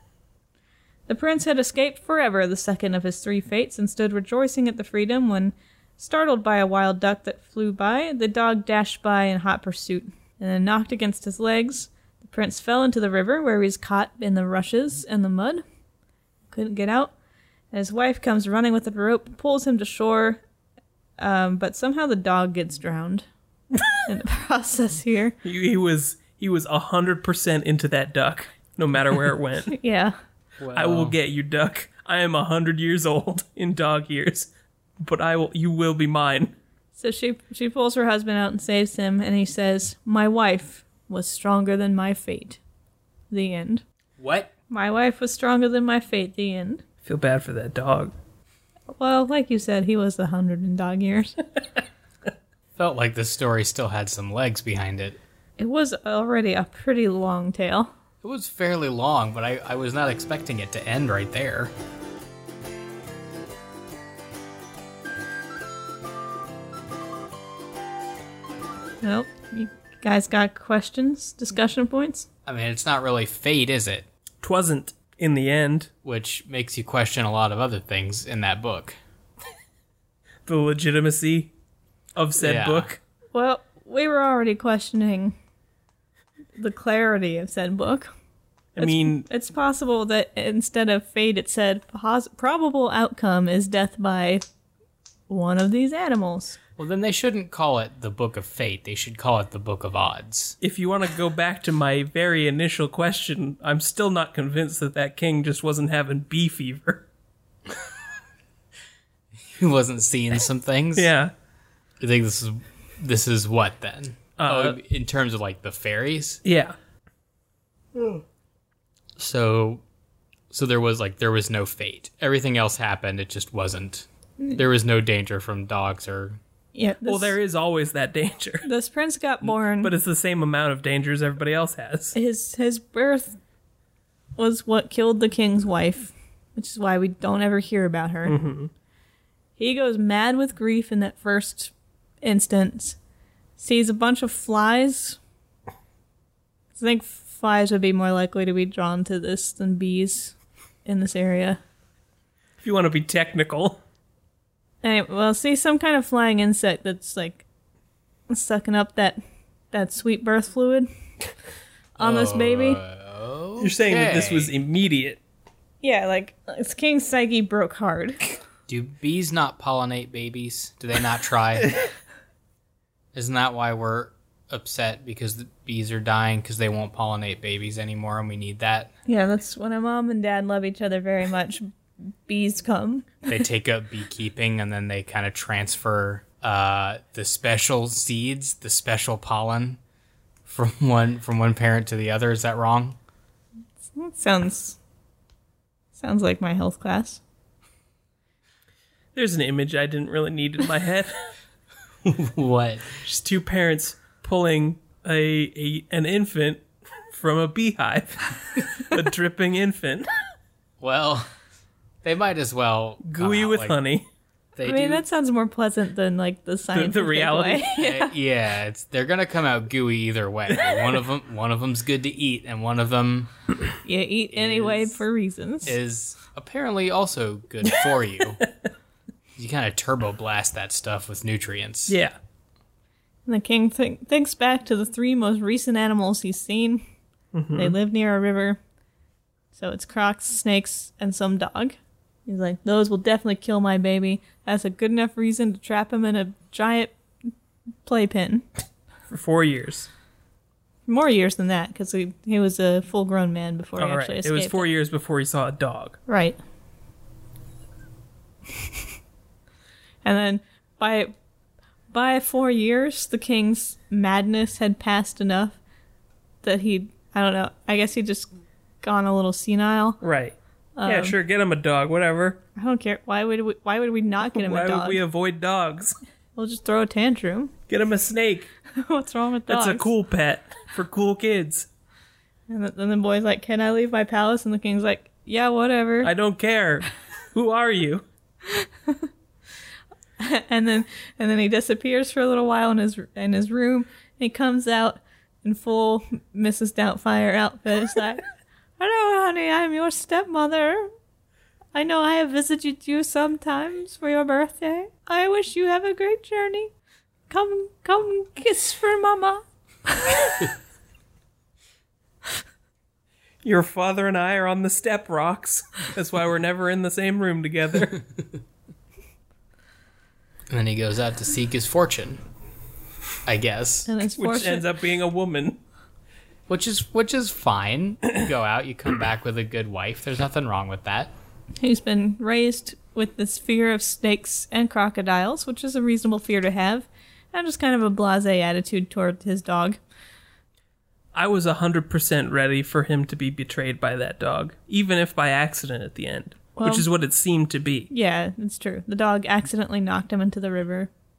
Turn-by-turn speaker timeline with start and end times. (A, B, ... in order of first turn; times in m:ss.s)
0:01.1-0:15.6 A
0:16.5-0:17.1 A
0:17.7-0:20.4 A
0:21.2-0:23.2 A
0:24.0-0:25.4 A
0:25.4-0:29.7 B
0:29.7-0:30.2 A
0:30.6-0:31.2 C
0:30.7-0:34.5 B
0:35.0-0:36.5 B
0:37.0-0:42.6 A
0:43.3-0:43.8 A
0:44.2-0:44.5 C
0:44.7-0:46.8 A
0:47.0-0:48.1 B
0:48.9-0:51.4 A
0:52.8-0:55.2 C
0:55.6-0:57.9 A
0:58.2-1:01.7 C
1:09.0-1:12.3 A
1:12.4-1:14.0 C
1:14.4-1:15.9 B
1:16.0-1:19.0 C
1:20.4-1:21.5 B
1:22.2-1:23.0 B
1:22.4-1:22.9 C
1:23.3-1:25.4 A
1:26.6-1:28.1 A
1:28.8-1:29.3 B
1:28.8-1:34.4 A
1:35.3-1:36.6 A
1:36.8-1:40.6 C
1:40.6-1:47.0 B
1:49.5-1:51.1 C
1:51.0-1:51.3 B
1:52.0-1:56.4 C
1:54.4-1:54.8 B
1:56.4-1:56.7 B
1:59.2-1:59.8 C
2:00.5-2:06.4 C
2:06.7-2:07.3 A
2:07.0-2:08.6 B
2:08.6-2:09.9 A
2:09.4-2:12.1 B
2:12.1-2:13.4 A
2:14.4-2:18.4 A
2:18.2-2:18.7 B
2:19.6-2:23.0 A
2:23.6-2:25.2 A
2:26.8-2:31.6 A
2:32.6-2:33.8 B
2:34.8-2:37.4 A
2:38.3-2:39.2 A
2:39.7-2:40.9 A
2:42.0-2:42.8 A
2:42.0-2:44.5 C
2:43.6-2:45.2 B
2:45.8-2:48.2 A
2:48.7-2:51.8 C
2:53.1-2:58.9 C
2:59.1-3:01.7 A
3:02.2-3:03.2 A
3:03.2-3:09.8 C
3:10.4-3:13.0 C
3:13.9-3:14.8 A
3:16.0-3:17.2 A
3:19.1-3:21.1 B
3:22.0-3:23.0 C
3:23.0-3:30.1 B
3:30.8-3:31.3 C
3:32.0-3:33.8 C
3:33.0-3:34.0 B
3:34.6-3:35.0 C
3:34.6-3:38.1 A
3:36.7-3:37.7 B
3:37.8-3:43.3 C
3:43.8-3:45.8 A
3:44.3-3:45.0 C
3:45.6-3:48.4 C
3:49.4-3:52.0 C
3:51.9-3:52.2 B
3:53.2-3:56.8 A
3:57.3-3:57.8 B
3:57.6-3:58.6 A
3:59.5-4:06.9 A
4:07.8-4:08.4 A
4:09.1-4:09.9 B
4:10.9-4:14.7 A
4:13.8-4:16.0 B
4:16.1-4:16.4 A
4:20.0-4:21.1 A
4:21.9-4:25.6 A
4:26.4-4:28.3 A
4:28.8-4:30.0 A
4:30.0-4:32.4 B
4:30.8-4:31.2 A
4:32.6-4:35.0 A
4:34.3-4:36.0 B
4:36.4-4:37.5 A
4:37.7-4:38.5 B
4:38.7-4:39.9 A
4:39.5-4:41.7 B
4:42.5-4:46.1 A
4:46.0-4:48.0 B
4:48.5-4:49.1 A
4:50.2-4:58.2 A
4:58.8-5:00.9 A
5:01.7-5:06.7 A
5:07.3-5:10.5 A
5:13.4-5:18.0 B
5:20.5-5:22.2 C
5:23.2-5:23.9 C
5:23.8-5:24.7 A
5:24.2-5:25.6 B
5:26.5-5:31.1 C
5:31.6-5:39.8 A
5:41.1-5:47.9 B
5:46.6-5:46.9 A
5:47.9-5:50.9 A